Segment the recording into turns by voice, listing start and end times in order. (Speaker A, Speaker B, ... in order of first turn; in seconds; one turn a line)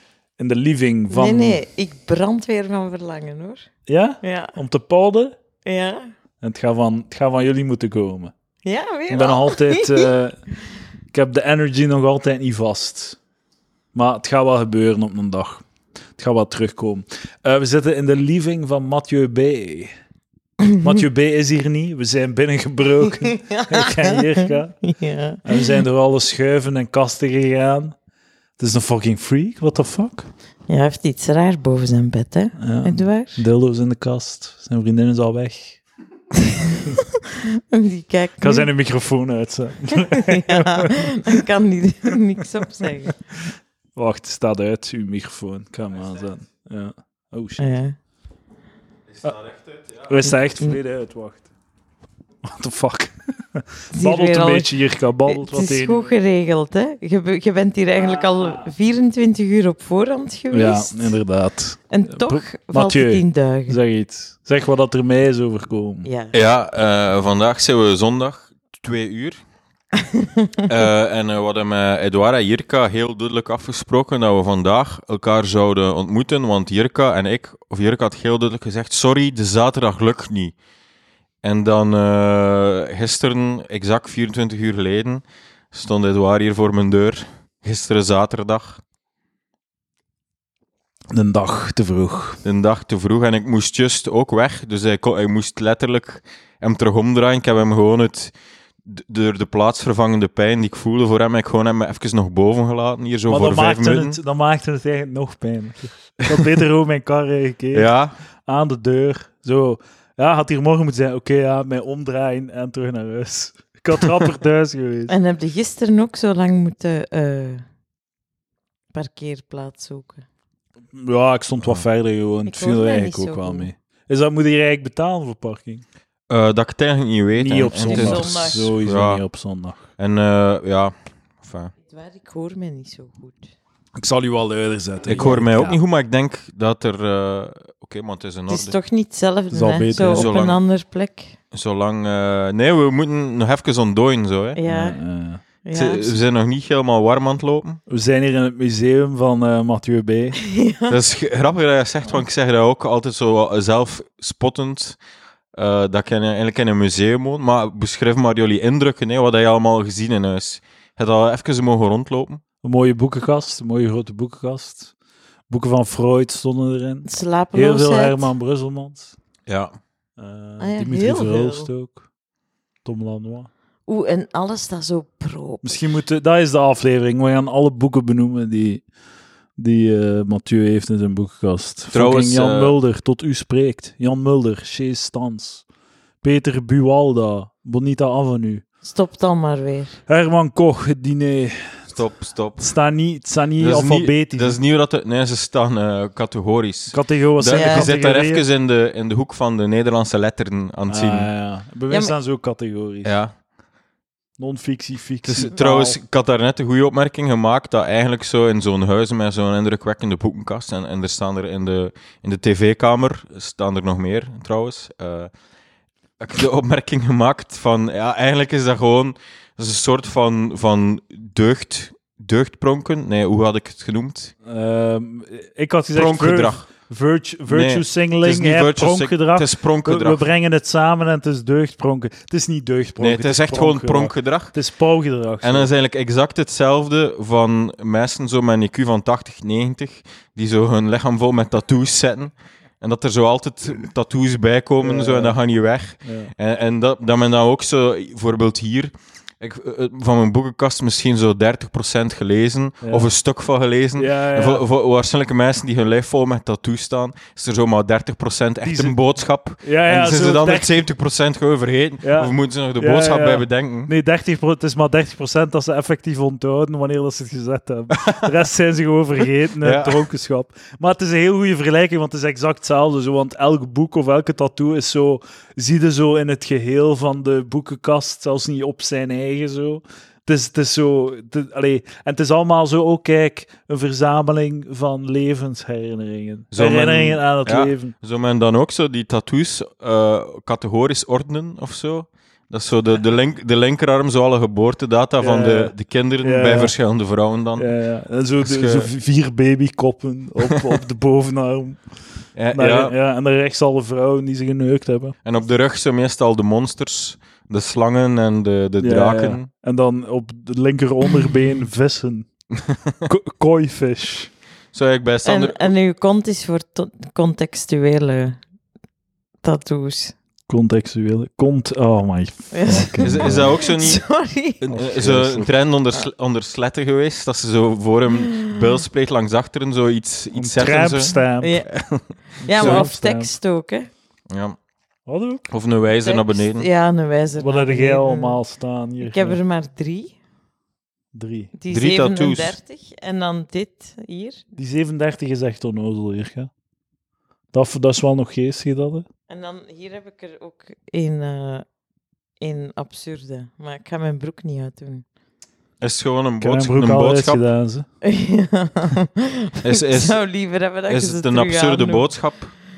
Speaker A: 0.4-1.6
Speaker B: 1.1-3.7
Speaker A: 3.9-5.4
Speaker B: 4.2-4.5
Speaker B: 5.6-6.1
Speaker A: 6.4-8.3
Speaker B: 8.6-10.1
Speaker A: 9.1-10.4
Speaker A: 11.1-13.2
Speaker A: 13.9-15.6
Speaker A: 16.2-19.9
Speaker A: 20.8-24.8
Speaker B: 23.1-25.8
Speaker A: 25.4-27.9
Speaker A: 28.6-30.3
Speaker B: 30.7-33.4
Speaker A: 32.6-35.8
Speaker B: 36.4-38.7
Speaker A: 38.4-41.4
Speaker B: 40.0-43.2
Speaker A: 44.0-47.8
Speaker B: 47.6-47.9
Speaker C: 49.1-50.1
Speaker A: 50.0-51.5
Speaker A: 52.4-56.1
Speaker B: 53.9-54.7
Speaker B: 55.3-61.1
Speaker A: 58.0-58.7
Speaker A: 60.5-66.1
Speaker B: 61.9-63.8
Speaker B: 66.0-66.3
Speaker C: 66.3-69.4
Speaker B: 70.2-70.6
Speaker C: 70.7-80.5
Speaker C: 81.4-88.8
Speaker A: 91.1-92.4
Speaker C: 92.4-104.2
Speaker A: 103.3-107.9
Speaker C: 107.7-108.1
Speaker A: 108.5-115.1
Speaker B: 115.1-117.6
Speaker B: 118.9-120.2
Speaker A: 120.9-125.8
Speaker B: 122.5-123.7
Speaker C: 126.3-129.2
Speaker A: 127.3-129.8
Speaker B: 127.7-128.7
Speaker C: 130.0-131.7
Speaker B: 131.9-133.5
Speaker A: 134.0-135.8
Speaker C: 135.1-138.7
Speaker B: 138.5-141.4
Speaker A: 139.5-140.3
Speaker C: 139.9-140.6
Speaker C: 141.5-144.6
Speaker B: 144.6-145.0
Speaker A: 144.7-145.4
Speaker B: 145.6-146.2
Speaker C: 145.7-147.8
Speaker A: 147.9-150.4
Speaker B: 150.4-151.0
Speaker C: 150.9-155.0
Speaker C: 155.5-162.4
Speaker A: 162.6-164.9
Speaker A: 165.5-169.1
Speaker B: 167.1-168.3
Speaker C: 169.5-169.7
Speaker A: 170.2-172.0
Speaker B: 170.6-171.7
Speaker A: 172.8-173.5
Speaker B: 173.9-175.7
Speaker A: 175.6-178.8
Speaker A: 179.6-185.6
Speaker C: 181.9-182.7
Speaker A: 186.2-188.6
Speaker B: 188.8-190.0
Speaker A: 190.1-191.9
Speaker C: 191.9-192.7
Speaker A: 192.6-194.6
Speaker C: 193.6-201.3
Speaker A: 196.9-198.4
Speaker B: 197.5-197.9
Speaker A: 200.9-203.2
Speaker C: 203.0-203.3
Speaker A: 204.4-206.0
Speaker C: 205.2-215.3
Speaker C: 216.2-224.3
Speaker A: 224.4-235.7
Speaker C: 225.9-226.7
Speaker C: 227.5-230.2
Speaker C: 233.0-234.5
Speaker C: 235.4-263.9
Speaker A: 244.8-245.4
Speaker A: 246.0-246.3
Speaker A: 252.8-253.1
Speaker A: 254.0-254.6
Speaker A: 258.6-259.0
Speaker A: 259.6-260.8
Speaker A: 262.0-287.9
Speaker C: 269.6-270.0
Speaker C: 286.5-297.7
Speaker A: 295.2-296.7
Speaker A: 297.6-301.8
Speaker C: 298.4-298.9
Speaker C: 302.4-302.9
Speaker A: 302.5-305.1
Speaker C: 305.2-309.5
Speaker A: 308.8-312.3
Speaker C: 312.6-312.9
Speaker A: 313.0-314.3
Speaker C: 314.7-315.7
Speaker B: 315.2-318.4
Speaker B: 319.4-320.1
Speaker A: 320.5-323.5
Speaker B: 322.5-324.6
Speaker C: 323.0-324.0
Speaker C: 324.6-331.1
Speaker A: 324.7-325.5
Speaker B: 328.1-328.6
Speaker A: 330.3-331.5
Speaker B: 331.4-331.7
Speaker C: 331.7-332.0
Speaker B: 332.4-333.9
Speaker A: 332.4-333.3
Speaker C: 332.6-332.9
Speaker C: 334.3-334.6
Speaker A: 335.1-335.4
Speaker C: 335.5-336.7
Speaker B: 336.0-338.4
Speaker A: 337.4-339.4
Speaker B: 339.0-340.1
Speaker A: 341.1-341.5
Speaker B: 341.6-344.4
Speaker C: 341.7-342.6
Speaker A: 344.6-346.5
Speaker A: 347.5-349.1
Speaker B: 349.3-351.6
Speaker B: 352.4-355.0
Speaker C: 355.8-357.4
Speaker A: 356.4-357.8
Speaker B: 358.0-362.0
Speaker C: 359.6-360.2
Speaker C: 360.9-362.5